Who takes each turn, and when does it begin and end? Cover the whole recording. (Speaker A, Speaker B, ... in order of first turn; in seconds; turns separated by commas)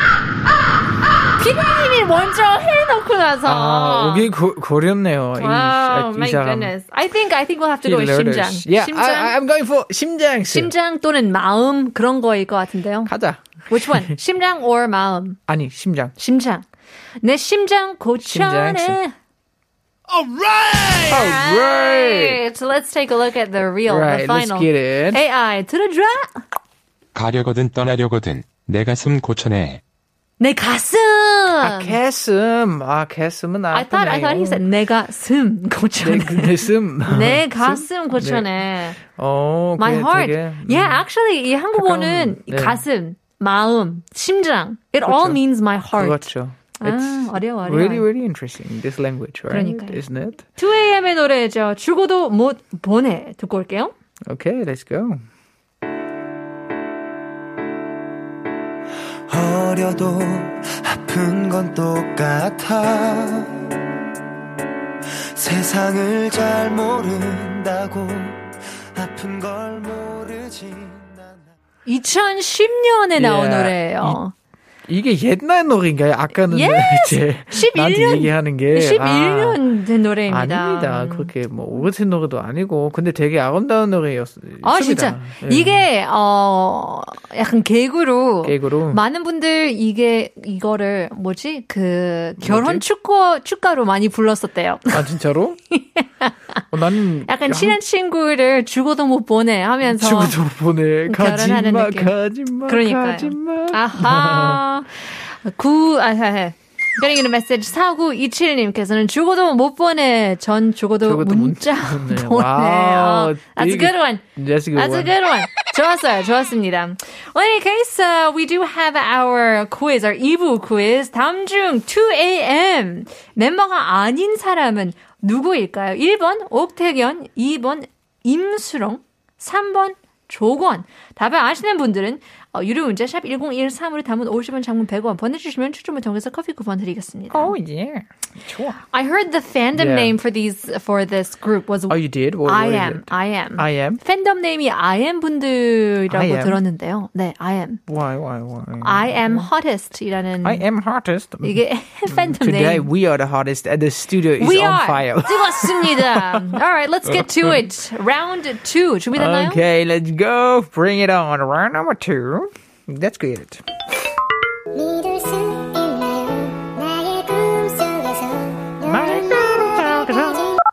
Speaker A: 1.3-4.3, Speaker B: 3.4-6.7, Speaker A: 5.3-9.3, Speaker B: 7.8-10.7, Speaker A: 10.5-13.1, Speaker B: 13.1-14.2, Speaker A: 13.7-15.4, Speaker B: 15.5-16.1, Speaker A: 16.2-16.6, Speaker A: 17.2-19.1, Speaker B: 18.2-19.0, Speaker B: 21.1-22.4, Speaker A: 21.1-26.4, Speaker B: 23.8-25.2, Speaker C: 27.1-29.8, Speaker A: 30.4-31.9, Speaker B: 31.6-34.7, Speaker A: 33.7-39.0, Speaker B: 36.0-41.0, Speaker A: 39.8-46.3, Speaker B: 41.7-42.8, Speaker B: 45.0-50.4, Speaker A: 46.8-48.1, Speaker A: 49.5-50.0, Speaker A: 50.5-53.9, Speaker B: 54.3-55.2, Speaker D: 59.3-63.7, Speaker D: 65.3-71.4, Speaker A: 71.8-74.3, Speaker B: 73.2-74.2, Speaker B: 74.9-79.6, Speaker A: 76.5-81.3, Speaker B: 80.3-85.9, Speaker A: 84.6-95.0, Speaker B: 88.4-89.0, Speaker B: 92.4-92.8, Speaker B: 94.9-95.6, Speaker A: 95.7-96.6, Speaker B: 96.7-97.8, Speaker A: 97.2-100.4, Speaker B: 99.8-104.6, Speaker A: 101.1-102.1, Speaker A: 102.7-137.6, Speaker B: 111.0-115.1, Speaker B: 137.3-138.8, Speaker A: 138.9-147.8, Speaker B: 139.7-140.2, Speaker B: 141.9-144.0, Speaker B: 146.1-146.6, Speaker B: 147.9-149.5, Speaker A: 148.8-150.6, Speaker B: 150.4-157.7, Speaker A: 151.4-152.9, Speaker A: 154.4-159.6, Speaker B: 159.1-163.6, Speaker E: 164.8-168.5, Speaker B: 168.8-170.5